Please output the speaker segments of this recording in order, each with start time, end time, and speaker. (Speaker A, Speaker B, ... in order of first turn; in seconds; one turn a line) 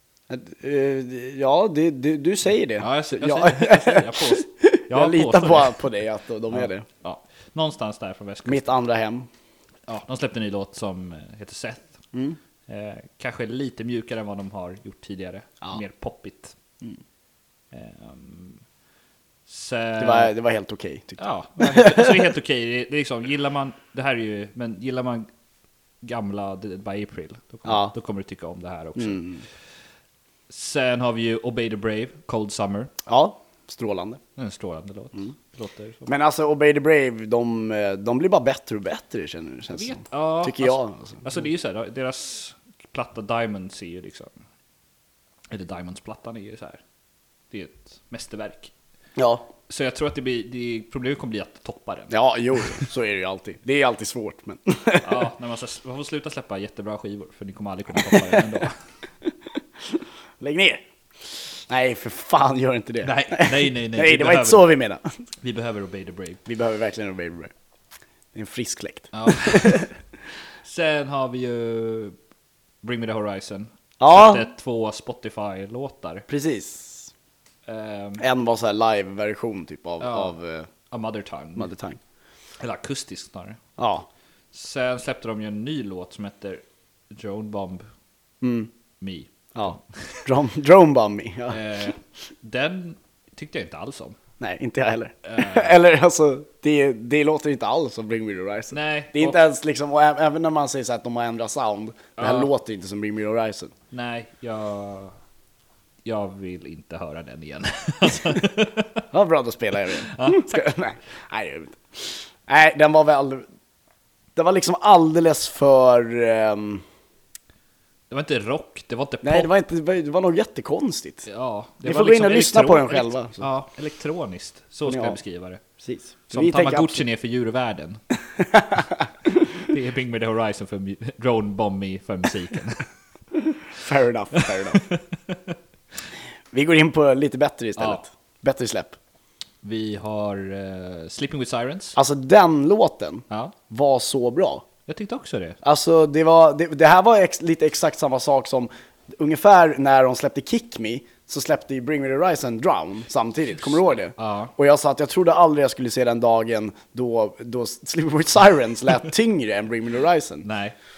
Speaker A: 0.3-6.8
Speaker B: 2.8-5.8
Speaker B: 6.5-8.7
Speaker A: 8.4-9.3
Speaker B: 9.9-12.0
Speaker B: 12.7-16.6
Speaker B: 17.7-18.6
Speaker B: 19.5-20.3
Speaker A: 20.0-22.3
Speaker B: 21.2-25.3
Speaker B: 26.0-29.3
Speaker A: 27.6-27.9
Speaker A: 29.0-29.4
Speaker B: 30.5-32.9
Speaker A: 33.0-34.2
Speaker B: 34.4-36.1
Speaker A: 36.1-41.2
Speaker B: 39.7-44.4
Speaker B: 45.5-46.8
Speaker B: 47.5-48.7
Speaker A: 49.2-49.5
Speaker B: 49.7-52.9
Speaker A: 52.1-55.1
Speaker B: 55.0-58.8
Speaker A: 60.4-60.8
Speaker A: 61.7-65.0
Speaker B: 63.0-64.7
Speaker B: 65.4-66.4
Speaker A: 66.5-67.5
Speaker A: 68.3-69.9
Speaker B: 69.1-69.9
Speaker B: 70.6-72.1
Speaker B: 72.8-76.3
Speaker A: 74.0-74.5
Speaker A: 76.3-77.1
Speaker B: 77.7-78.2
Speaker A: 78.2-80.7
Speaker B: 80.0-80.3
Speaker B: 80.9-81.7
Speaker A: 81.5-82.0
Speaker B: 82.6-83.6
Speaker A: 83.8-84.1
Speaker B: 84.5-87.9
Speaker A: 88.4-88.7
Speaker B: 89.0-90.2
Speaker A: 89.5-91.6
Speaker B: 91.5-94.2
Speaker A: 94.4-103.7
Speaker B: 95.2-95.8
Speaker B: 98.7-99.4
Speaker B: 102.2-102.5
Speaker B: 103.9-105.2
Speaker B: 106.0-109.0
Speaker A: 109.1-113.5
Speaker B: 110.0-110.7
Speaker A: 114.3-116.8
Speaker B: 118.1-119.5
Speaker A: 119.2-121.3
Speaker B: 121.3-125.6
Speaker A: 121.8-123.4
Speaker A: 124.9-125.2
Speaker A: 125.8-127.0
Speaker B: 126.3-128.0
Speaker A: 128.3-129.0
Speaker B: 129.5-132.9
Speaker A: 133.7-134.8
Speaker B: 134.3-135.6
Speaker A: 136.5-139.0
Speaker B: 137.8-138.0
Speaker B: 139.6-142.0
Speaker A: 141.9-144.7
Speaker B: 143.3-143.5
Speaker B: 144.9-145.6
Speaker A: 145.6-160.4
Speaker B: 154.2-154.5
Speaker B: 160.4-160.7